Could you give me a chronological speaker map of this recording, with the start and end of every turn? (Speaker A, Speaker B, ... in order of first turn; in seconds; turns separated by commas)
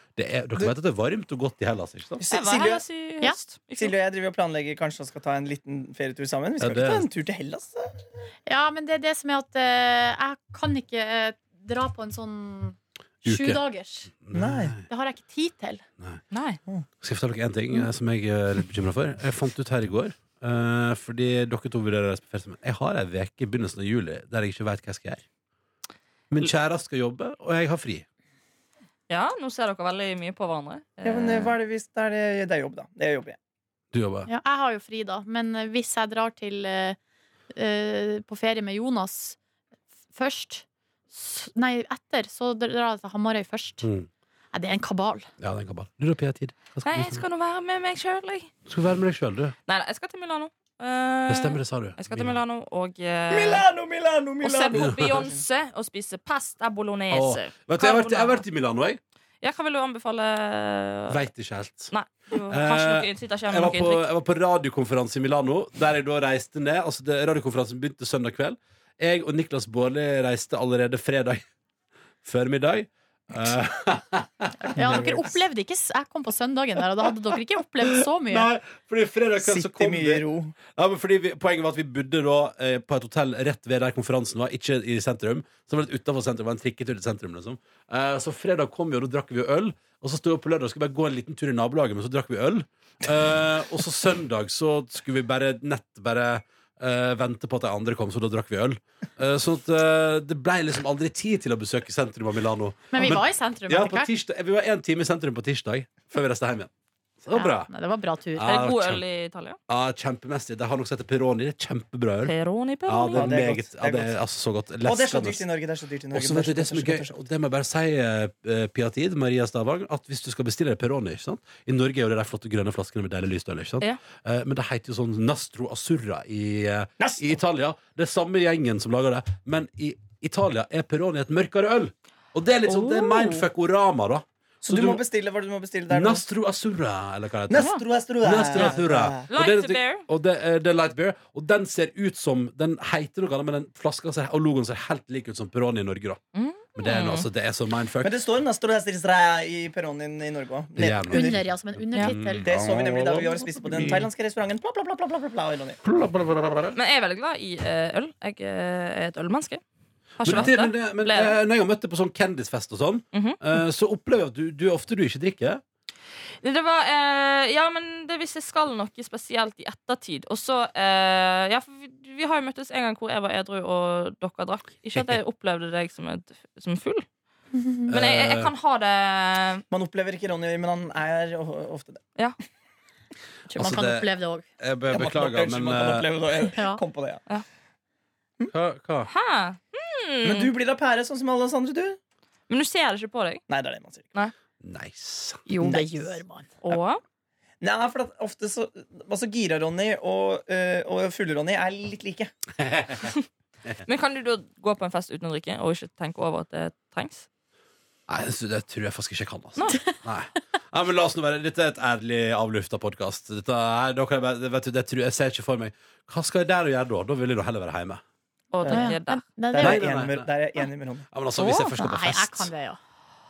Speaker A: 0.2-2.2, Speaker B: 2.2-2.8, Speaker C: 2.3-3.9, Speaker B: 3.8-8.0, Speaker A: 6.6-7.1, Speaker D: 8.5-14.1, Speaker A: 13.2-13.6, Speaker A: 14.2-14.8, Speaker B: 14.3-14.8, Speaker D: 14.9-15.8, Speaker C: 16.3-16.6, Speaker A: 17.0-25.2, Speaker A: 26.3-28.1, Speaker C: 29.1-31.6, Speaker B: 31.0-33.4, Speaker A: 33.9-34.3, Speaker D: 34.3-37.0, Speaker D: 37.5-39.4, Speaker D: 40.1-43.9, Speaker A: 43.8-44.1, Speaker D: 44.5-45.3, Speaker A: 45.4-47.2, Speaker C: 46.9-48.5, Speaker A: 48.7-49.5, Speaker C: 49.7-53.6, Speaker A: 51.3-52.4, Speaker B: 53.3-55.4, Speaker C: 54.4-58.4, Speaker A: 54.8-55.1, Speaker A: 57.1-59.0, Speaker C: 59.4-61.2, Speaker A: 61.1-61.9, Speaker C: 61.9-64.0, Speaker A: 62.5-71.4, Speaker A: 72.2-75.2, Speaker D: 74.7-78.5, Speaker B: 74.8-75.3, Speaker A: 78.2-106.7, Speaker B: 79.4-80.5, Speaker D: 102.9-104.1, Speaker A: 107.2-107.7, Speaker D: 107.3-108.5, Speaker A: 108.4-109.0, Speaker C: 108.4-109.6, Speaker A: 109.7-112.3, Speaker C: 112.2-113.3, Speaker A: 112.9-115.4, Speaker B: 113.1-114.2, Speaker B: 114.8-117.2, Speaker A: 116.1-135.0, Speaker B: 127.0-127.4, Speaker C: 132.7-133.5, Speaker B: 134.6-136.2, Speaker A: 135.9-146.2, Speaker B: 137.5-139.3, Speaker C: 137.6-137.8, Speaker C: 139.3-140.1, Speaker C: 146.3-147.3, Speaker A: 146.8-148.2, Speaker B: 148.0-151.4, Speaker A: 150.8-154.1, Speaker D: 151.1-152.5, Speaker B: 152.4-155.8, Speaker A: 155.8-156.8, Speaker C: 156.7-159.6, Speaker C: 160.2-161.4, Speaker A: 160.2-165.6, Speaker C: 163.1-163.4, Speaker C: 166.4-177.1, Speaker D: 177.5-177.9, Speaker A: 177.9-178.5, Speaker C: 177.9-179.6, Speaker B: 179.7-182.0, Speaker D: 183.5-184.4, Speaker A: 183.6-184.1, Speaker A: 184.6-186.1, Speaker B: 184.9-187.2, Speaker D: 186.5-186.8, Speaker A: 188.5-189.1, Speaker C: 189.1-190.5, Speaker B: 190.2-192.0, Speaker C: 192.5-193.4, Speaker B: 193.5-194.1, Speaker A: 194.6-195.4, Speaker D: 195.5-196.5, Speaker B: 195.6-196.8, Speaker C: 196.6-197.0, Speaker B: 197.6-202.3, Speaker A: 202.6-203.1, Speaker C: 203.8-207.3, Speaker A: 208.1-218.0, Speaker C: 218.5-219.2, Speaker B: 218.6-218.9, Speaker D: 218.7-219.8, Speaker B: 219.5-221.1, Speaker A: 219.6-220.3, Speaker A: 221.1-222.5, Speaker D: 221.3-222.8